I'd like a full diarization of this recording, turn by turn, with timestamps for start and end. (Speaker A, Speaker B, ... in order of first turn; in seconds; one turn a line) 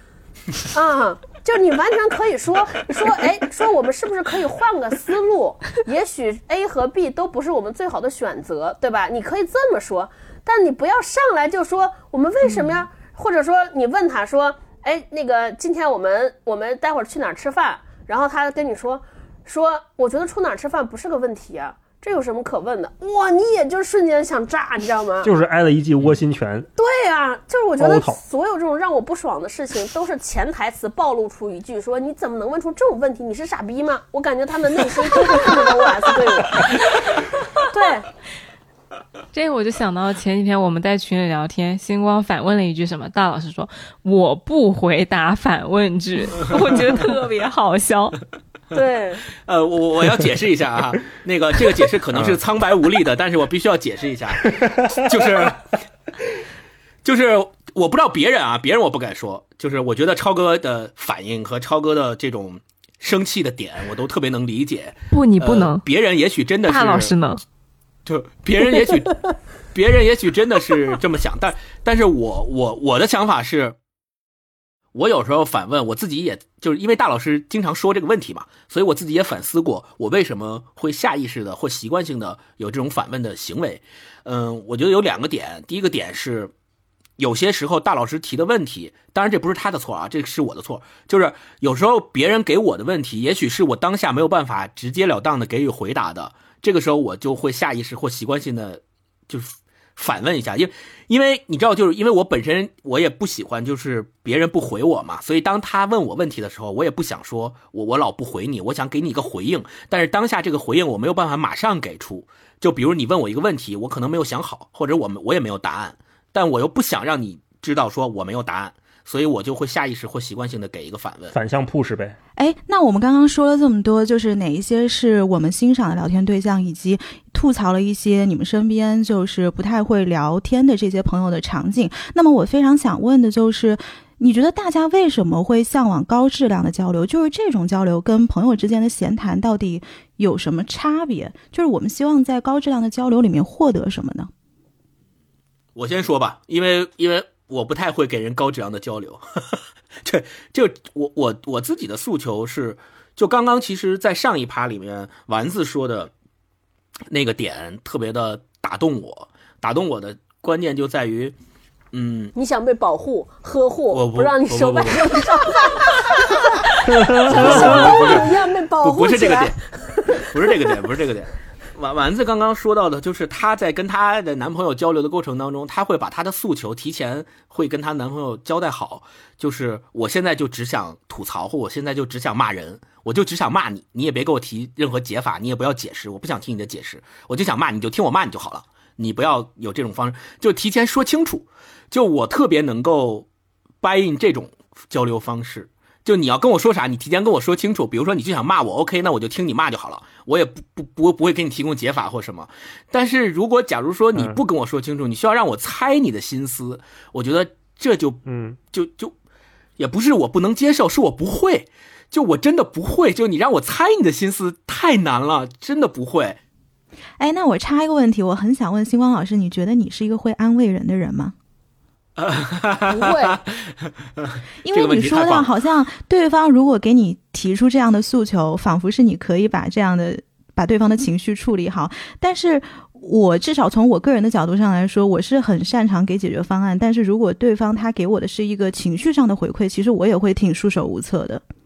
Speaker A: 0.6-25.3
Speaker B: 25.2-26.7
Speaker A: 26.8-38.1
Speaker B: 27.8-28.2
Speaker C: 39.3-48.2
Speaker A: 48.7-49.2
Speaker D: 49.4-55.7
Speaker B: 52.1-52.4
Speaker B: 54.4-55.5
Speaker D: 57.0-67.1
Speaker C: 65.1-65.8
Speaker C: 66.7-67.4
Speaker D: 68.1-73.8
Speaker D: 74.9-86.5
Speaker D: 87.2-121.3
Speaker B: 121.3-122.2
Speaker E: 122.4-144.3
Speaker D: 145.7-156.1
Speaker D: 157.1-161.3
Speaker D: 161.9-162.3
Speaker A: 162.3-170.7
Speaker D: 163.9-165.3
Speaker B: 167.0-167.9
Speaker D: 167.2-169.6
Speaker D: 170.1-193.3
Speaker D: 193.8-209.1
Speaker B: 208.2-208.6
Speaker D: 209.8-216.4
Speaker E: 217.2-221.3
Speaker D: 222.2-225.5
Speaker A: 222.9-223.4
Speaker E: 224.6-241.4